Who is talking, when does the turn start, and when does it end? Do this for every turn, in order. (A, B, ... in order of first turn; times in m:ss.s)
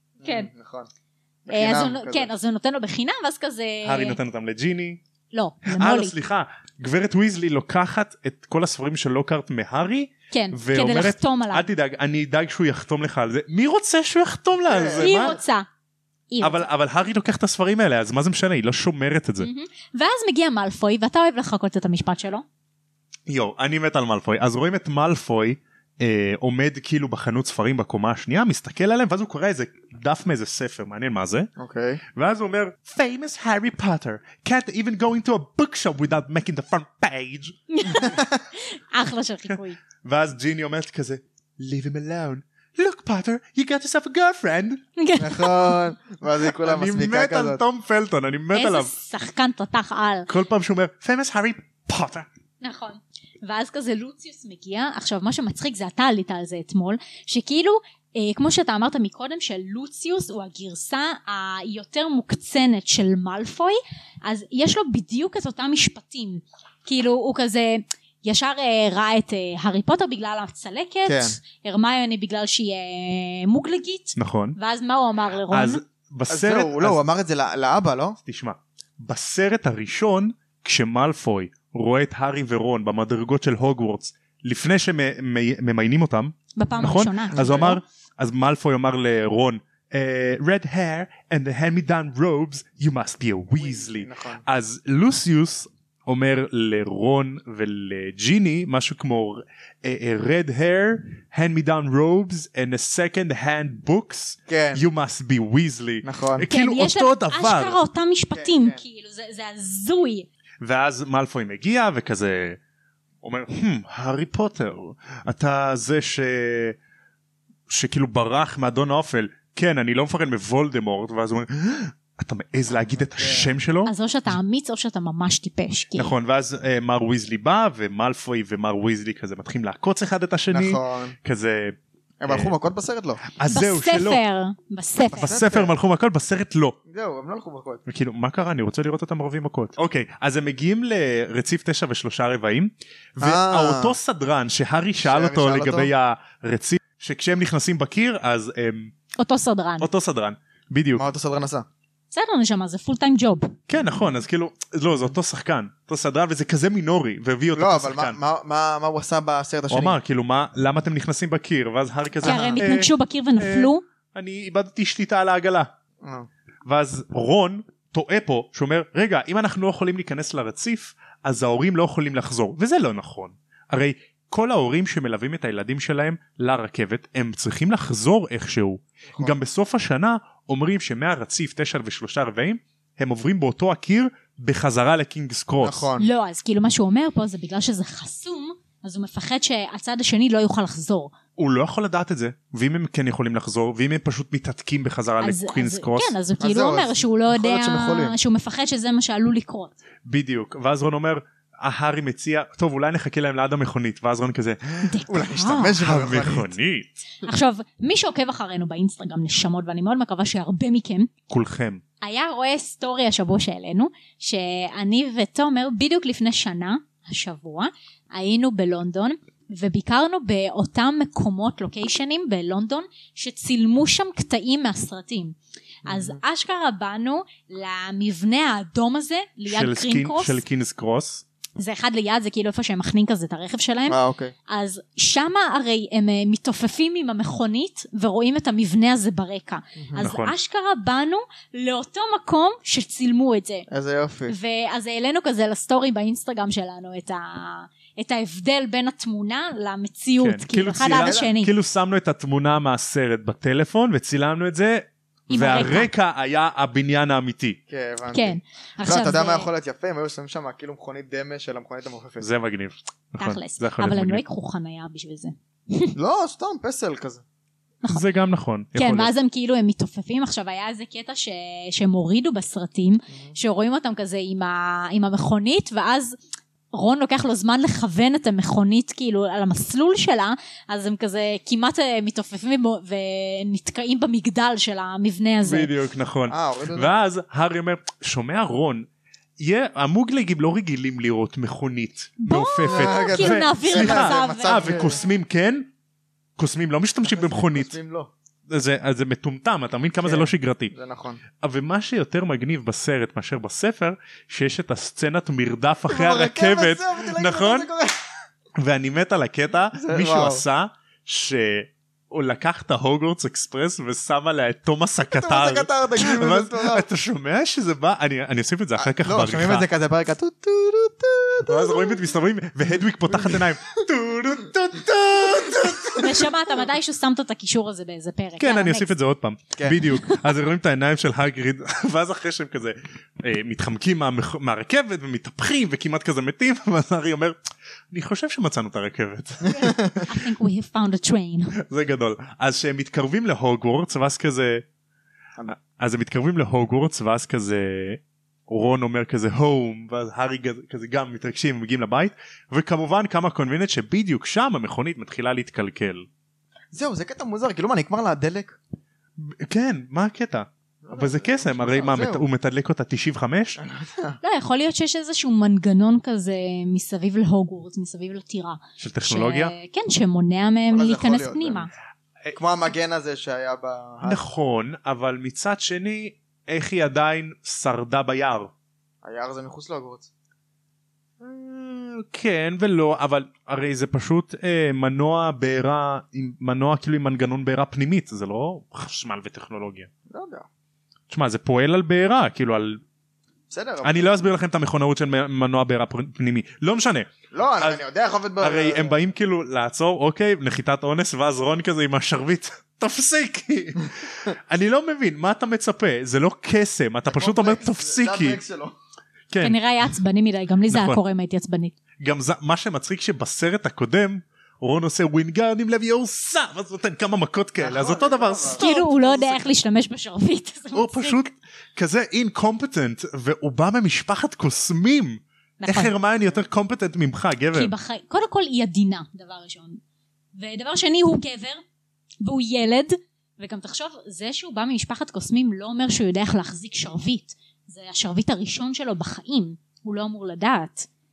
0:00.2-0:00.9 A
0:00.2-0:00.5 B
0:01.4-0:02.3 A
0:01.5-0:04.2 B
0:03.8-0:05.0 C
0:05.3-0:06.1 B
0:05.6-0:15.4 C
0:10.3-0:11.7 B
0:14.6-0:15.4 A
0:15.0-0:15.7 B
0:16.3-0:16.7 B
0:16.4-0:19.5 C
0:19.4-0:22.4 B
0:23.3-0:31.5 C
0:31.6-0:32.0 A
0:32.1-0:37.6 C
0:37.7-0:39.8 B
0:39.5-0:44.8 C
0:45.0-0:45.8 B
0:45.2-0:47.6 A
0:46.6-0:48.9 C
0:48.5-0:50.3 B
0:50.3-0:52.3 C
0:52.6-1:15.8 B
1:11.0-1:11.4 A
1:14.2-1:14.6 C
1:15.5-1:17.0 C
1:16.3-1:18.2 A
1:18.2-1:47.8 C
1:26.6-1:27.8 B
1:26.7-1:27.8 A
1:33.6-1:34.4 A
1:44.5-1:44.9 A
1:46.0-1:46.4 A
1:46.5-1:50.3 B
1:48.3-1:48.8 A
1:50.6-1:52.6 C
1:53.2-1:56.8 C
1:57.7-2:04.4 C
2:02.9-2:03.5 A
2:03.9-2:06.1 B
2:06.0-2:12.5 C
2:10.5-2:11.2 A
2:12.2-2:13.2 A
2:13.2-2:14.2 C
2:13.5-2:15.3 B
2:15.1-2:16.8 C
2:15.1-2:15.7 A
2:16.9-2:17.8 A
2:17.9-2:28.9 C
2:23.2-2:24.0 A
2:25.0-2:25.9 A
2:29.2-2:29.9 B
2:29.8-2:31.0 C
2:31.0-2:31.6 A
2:32.1-2:33.5 B
2:33.7-2:38.2 C
2:37.6-2:40.0 A
2:39.7-2:45.7 C
2:42.2-2:42.6 A
2:42.2-2:43.8 B
2:46.0-2:46.3 A
2:46.6-3:05.9 C
2:59.1-2:59.4 A
3:05.6-3:06.1 A
3:06.0-3:11.1 B
3:11.4-3:16.1 C
3:15.2-3:19.7 B
3:16.4-3:18.2 A
3:20.0-3:24.9 C
3:24.8-3:25.8 B
3:25.1-3:26.5 A
3:25.8-3:27.0 C
3:27.2-3:31.1 B
3:31.3-3:31.8 C
3:32.0-3:50.4 B
3:45.9-3:46.2 A
3:49.5-3:51.2 C
3:51.6-4:03.7 B
3:53.9-3:54.3 A
4:00.0-4:00.4 C
4:03.7-4:04.4 A
4:04.3-4:11.5 B
4:10.2-4:17.6 C
4:10.9-4:11.3 A
4:15.3-4:15.9 B
4:17.7-4:22.3 A
4:18.1-4:19.5 B
4:22.2-4:24.2 C
4:23.2-4:25.9 B
4:25.9-4:27.2 A
4:27.9-4:29.1 C
4:28.7-4:36.2 B
4:36.7-4:45.7 B
4:45.4-4:48.9 C
4:46.3-4:46.9 A
4:49.4-4:55.7 C
4:52.2-4:55.0 B
4:52.7-4:55.0 A
4:56.4-4:57.7 C
4:57.0-4:58.1 A
4:58.5-5:00.7 C
5:00.0-5:01.2 A
5:01.4-5:07.7 C
5:05.9-5:08.0 A
5:08.6-5:19.7 C
5:09.7-5:10.4 A
5:15.1-5:16.8 A
5:18.8-5:22.0 A
5:21.4-5:26.2 C
5:22.7-5:23.5 A
5:25.2-5:26.0 A
5:26.0-5:28.9 B
5:28.4-5:37.4 C
5:37.9-5:39.7 C
5:39.5-5:40.0 A
5:40.0-5:41.6 B
5:41.6-5:44.6 C
5:45.4-5:56.1 C
5:56.7-5:58.6 A
5:59.2-6:03.6 C
6:00.8-6:02.2 A
6:03.6-6:04.2 A
6:04.2-6:11.7 B
6:08.8-6:09.5 C
6:10.7-6:11.7 A
6:12.3-6:14.2 A
6:14.0-6:18.5 C
6:19.0-6:20.1 A
6:21.2-6:29.9 C
6:30.1-6:30.4 A
6:31.1-6:32.8 C
6:33.5-6:34.2 A
6:33.8-6:37.8 C
6:37.3-6:39.0 A
6:38.4-6:48.4 C
6:47.1-6:48.8 A
6:49.3-6:49.6 C
6:49.4-6:51.7 B
6:50.7-6:51.0 C
6:52.0-6:58.8 C
6:57.6-6:59.4 A
6:58.6-7:01.3 B
7:00.7-7:07.7 C
7:05.6-7:05.9 B
7:07.5-7:09.8 B
7:10.3-7:11.6 B
7:12.2-7:20.9 B